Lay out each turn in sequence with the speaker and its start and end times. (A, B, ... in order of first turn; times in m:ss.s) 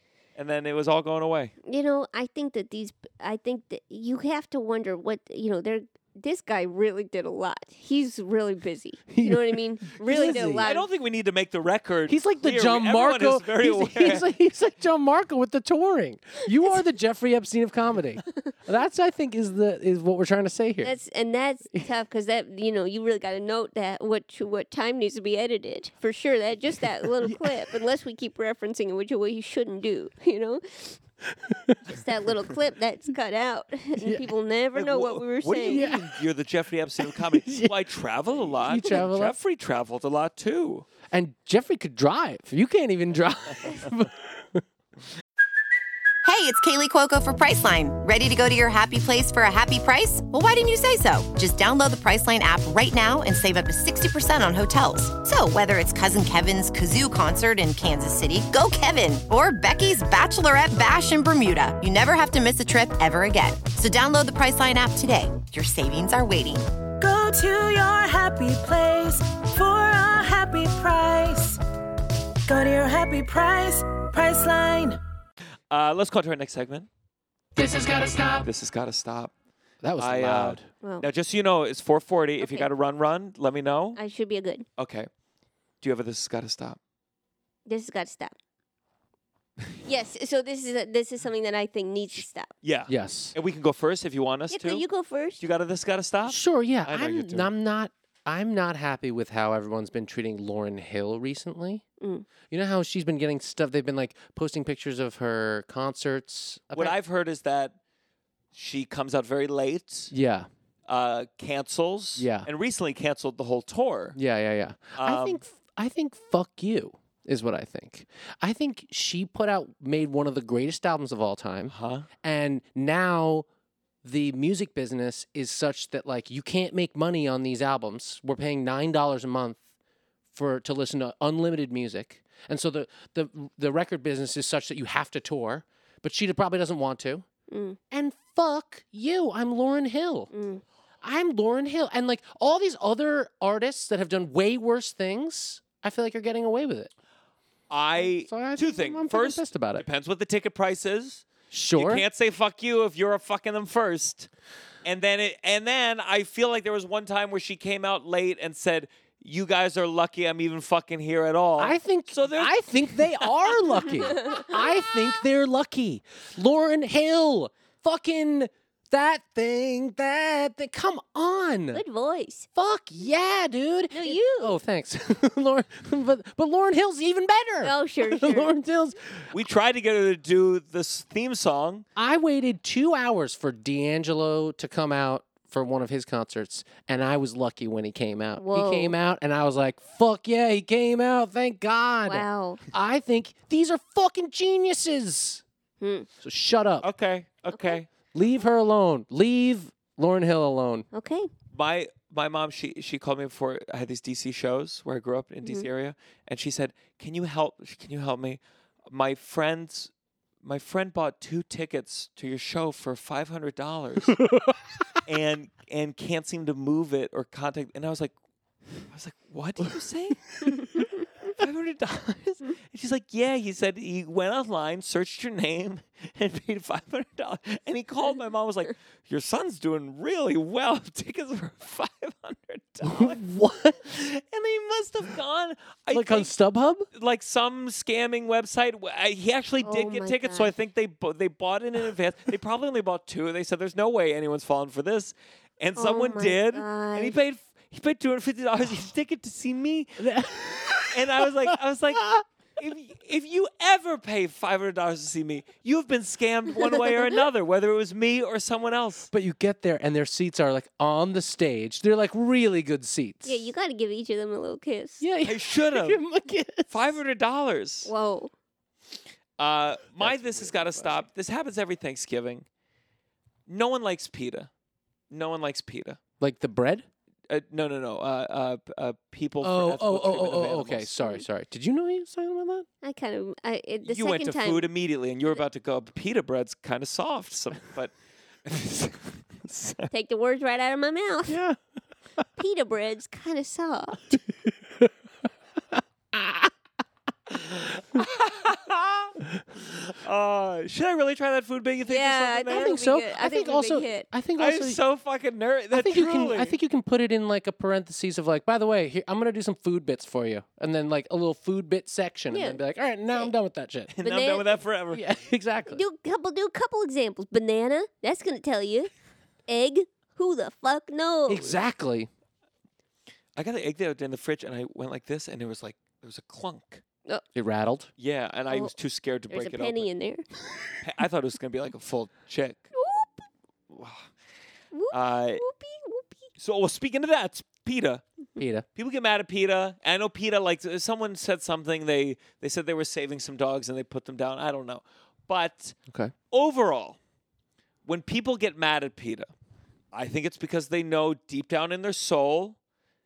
0:00.4-0:01.5 A
0:01.7-0:10.9 B
0:09.1-0:10.7 C
0:10.6-0:14.3 A
0:12.1-0:21.0 C
0:20.8-0:31.0 B
0:27.2-0:27.8 C
0:31.5-0:31.8 C
0:31.8-0:35.9 B
0:34.0-0:34.3 C
0:34.8-0:40.9 A
0:35.7-0:36.2 C
0:37.0-0:37.8 C
0:38.6-0:39.4 C
0:41.1-0:44.6 C
0:46.2-1:06.7 D
1:07.0-1:11.6 E
1:12.5-1:15.0 E
1:15.7-1:16.9 A
1:17.6-1:18.5 C
1:18.4-1:19.3 A
1:19.8-1:20.7 C
1:20.0-1:24.0 A
1:22.4-1:22.7 B
1:24.0-1:24.7 B
1:24.8-1:25.1 A
1:25.8-1:26.8 A
1:27.7-1:28.3 B
1:29.8-1:32.5 B
1:32.6-1:34.8 A
1:32.9-1:33.4 C
1:34.5-1:35.4 B
1:35.4-1:37.5 A
1:36.3-1:41.8 C
1:42.0-1:42.3 B
1:42.5-1:47.0 C
1:46.7-1:47.8 A
1:48.5-1:50.1 A
1:50.1-1:50.5 C
1:50.9-1:54.2 A
1:52.2-1:52.5 C
1:54.2-2:03.5 C
1:55.0-1:55.4 A
2:01.7-2:02.1 A
2:04.0-2:09.6 C
2:10.3-2:17.3 C
2:17.5-2:17.8 B
2:17.9-2:20.3 C
2:20.3-2:20.6 B
2:21.0-2:26.9 C
2:27.7-2:34.3 A
2:28.0-2:29.8 C
2:31.5-2:32.0 C
2:34.8-2:43.9 A
2:41.6-2:51.8 C
2:44.2-2:44.6 B
2:51.7-2:52.5 B
2:52.6-2:59.3 C
2:53.9-2:54.6 B
2:57.6-2:58.5 B
2:59.3-3:01.8 A
3:02.0-3:15.4 C
3:08.4-3:09.0 B
3:12.1-3:12.6 B
3:15.8-3:16.1 B
3:16.2-3:16.9 C
3:16.8-3:17.9 A
3:17.5-3:17.8 B
3:18.1-3:20.9 C
3:20.9-3:21.3 B
3:21.5-3:29.9 A
3:30.4-3:34.2 A
3:34.2-3:34.5 C
3:35.0-3:38.1 A
3:38.9-3:40.4 A
3:41.3-3:53.2 A
3:52.8-3:53.8 C
3:53.8-3:56.3 A
3:55.9-3:56.9 C
3:57.0-4:10.1 A
3:59.6-4:00.5 B
4:05.8-4:07.2 B
4:10.0-4:12.2 C
4:10.7-4:19.1 A
4:19.1-4:23.5 C
4:23.2-4:25.0 B
4:25.0-4:27.0 C
4:25.2-4:26.0 A
4:26.7-4:27.9 A
4:27.9-4:28.3 B
4:29.4-4:32.5 A
4:30.0-4:31.0 C
4:33.5-4:34.5 A
4:35.1-4:36.0 A
4:36.2-4:36.9 C
4:37.3-4:40.9 A
4:39.4-4:42.7 C
4:42.8-4:44.7 B
4:43.8-4:47.9 A
4:48.4-4:49.9 A
4:49.9-4:51.4 B
4:51.3-4:51.6 C
4:52.4-4:54.2 B
4:56.1-4:56.5 C
4:57.3-5:02.8 A
5:01.9-5:04.1 B
5:02.5-5:04.8 C
5:04.4-5:06.6 A
5:05.7-5:13.9 C
5:12.3-5:12.6 B
5:13.9-5:15.0 A
5:14.0-5:14.5 B
5:14.9-5:15.8 C
5:15.7-5:18.9 B
5:19.5-5:21.6 B
5:21.3-5:22.1 C
5:23.4-5:26.8 A
5:27.3-5:27.9 C
5:28.0-5:29.9 A
5:29.3-5:30.2 B
5:30.8-5:32.7 A
5:32.7-5:33.3 B
5:33.7-5:34.0 A
5:34.7-5:36.2 B
5:34.9-5:35.4 A
5:36.4-5:38.0 A
5:38.4-5:38.7 C
5:38.8-5:45.8 A
5:46.3-5:47.0 A
5:47.8-5:49.3 A
5:49.9-5:52.6 A